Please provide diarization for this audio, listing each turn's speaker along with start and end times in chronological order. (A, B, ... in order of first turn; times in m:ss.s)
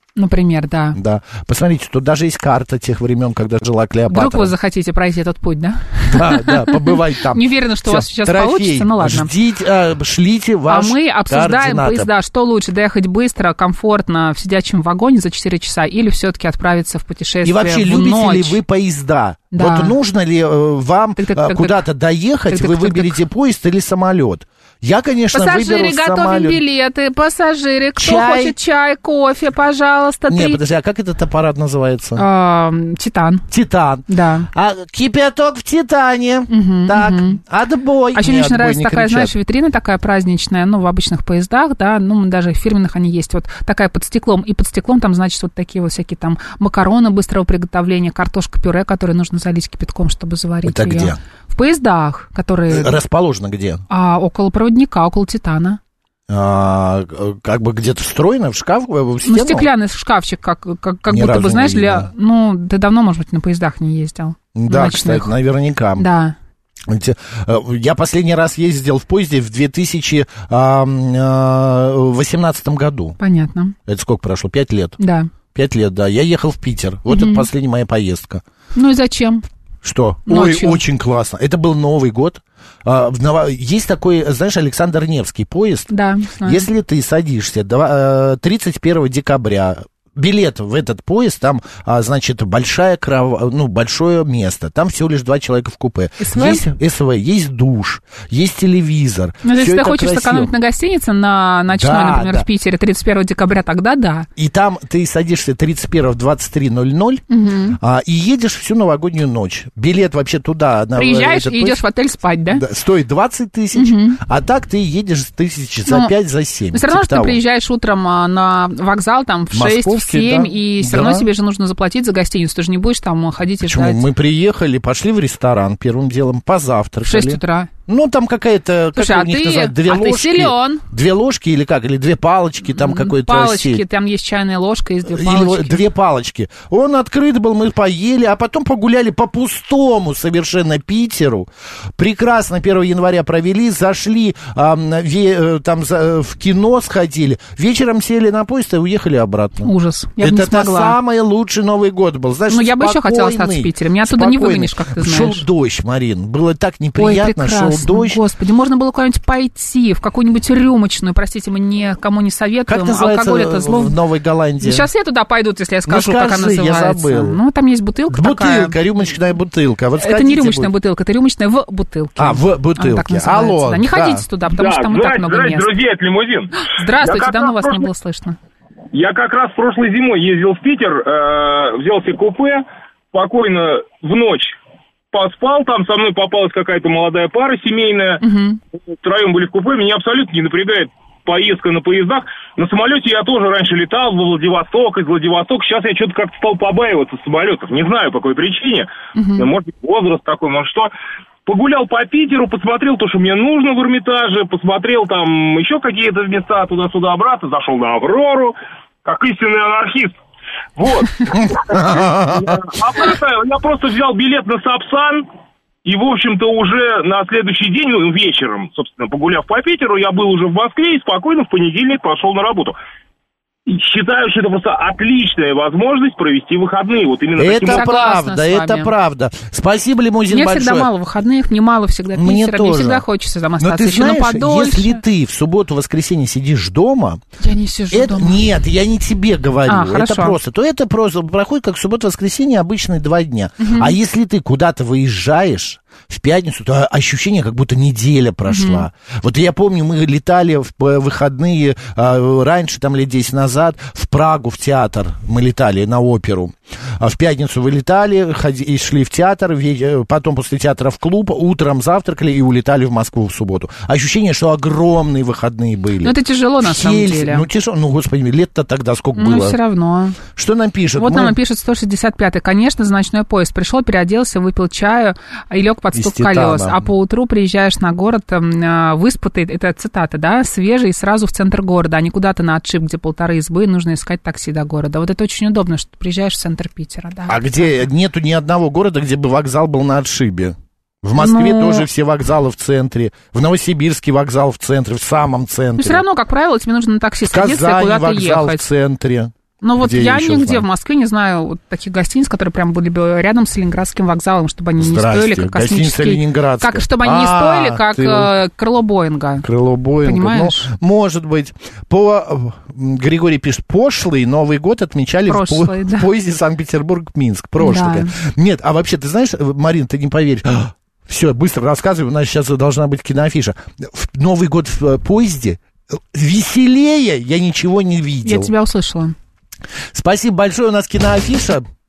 0:00.2-0:01.0 A
0:00.9-0:04.5 B
0:04.1-0:09.3 A
0:06.1-0:12.1 B
0:10.7-0:18.6 A
0:17.4-0:26.6 B
0:19.5-0:20.0 A
0:21.2-0:21.8 A
0:22.5-0:23.2 A
0:25.3-0:30.6 A
0:28.0-0:28.5 B
0:30.3-0:32.2 B
0:32.2-0:33.4 A
0:33.5-0:39.3 B
0:34.1-0:34.5 A
0:36.5-0:37.4 A
0:38.1-0:53.0 A
0:50.6-0:51.2 B
0:52.7-0:53.8 B
0:53.9-0:55.8 A
0:56.3-0:59.7 B
0:59.2-1:05.3 A
1:01.1-1:02.1 B
1:04.5-1:06.0 B
1:06.0-1:06.3 A
1:06.9-1:13.2 B
1:13.2-1:13.7 A
1:13.9-1:15.0 B
1:15.0-1:15.3 A
1:15.5-1:18.4 B
1:17.1-1:17.4 A
1:18.7-1:19.4 A
1:19.8-1:40.5 B
1:20.2-1:20.8 A
1:25.9-1:26.6 A
1:36.2-1:36.6 A
1:39.4-1:44.3 A
1:41.7-1:42.4 B
1:44.4-1:51.8 B
1:47.3-1:47.8 A
1:50.9-1:52.6 A
1:52.5-1:57.4 B
1:53.7-1:54.2 A
1:55.9-1:56.1 A
1:56.7-2:04.0 A
1:59.5-2:01.3 B
2:03.6-2:13.8 B
2:07.0-2:07.7 A
2:09.0-2:10.8 A
2:12.7-2:15.8 A
2:15.0-2:38.2 B
2:29.6-2:31.0 A
2:32.5-2:35.4 A
2:37.0-2:43.9 A
2:42.7-2:44.9 B
2:44.6-2:48.8 A
2:45.8-2:47.4 B
2:48.1-2:50.7 B
2:50.0-2:55.7 A
2:52.2-2:54.2 B
2:54.5-2:57.9 C
2:56.6-2:58.4 A
2:58.9-3:04.5 C
3:05.1-3:08.2 C
3:08.2-3:08.6 A
3:08.8-3:20.9 C
3:19.1-3:19.5 A
3:21.4-3:30.1 C
3:30.8-3:35.2 C
3:31.3-3:32.6 B
3:35.8-3:42.8 C
3:43.7-3:47.8 C
3:47.4-3:50.9 B
3:47.6-3:48.9 A
3:50.3-3:55.0 A
3:52.1-3:53.0 B
3:53.6-3:57.2 B
3:57.4-3:58.4 A
3:57.9-4:29.6 B
3:59.7-4:00.3 A
4:03.6-4:03.9 A
4:08.5-4:08.8 A
4:26.0-4:27.5 A
4:29.1-4:30.2 A
4:30.3-4:31.4 B
4:31.0-4:47.7 A
4:35.9-4:36.8 B
4:47.3-4:56.0 B
4:51.2-4:51.9 A
4:55.8-4:58.6 A
4:57.2-5:00.6 B
4:59.6-5:09.4 A
5:04.8-5:08.3 B
5:09.4-5:28.5 B
5:10.0-5:10.7 A
5:15.3-5:16.0 A
5:17.6-5:18.1 A
5:28.2-5:29.1 A
5:29.9-5:31.6 B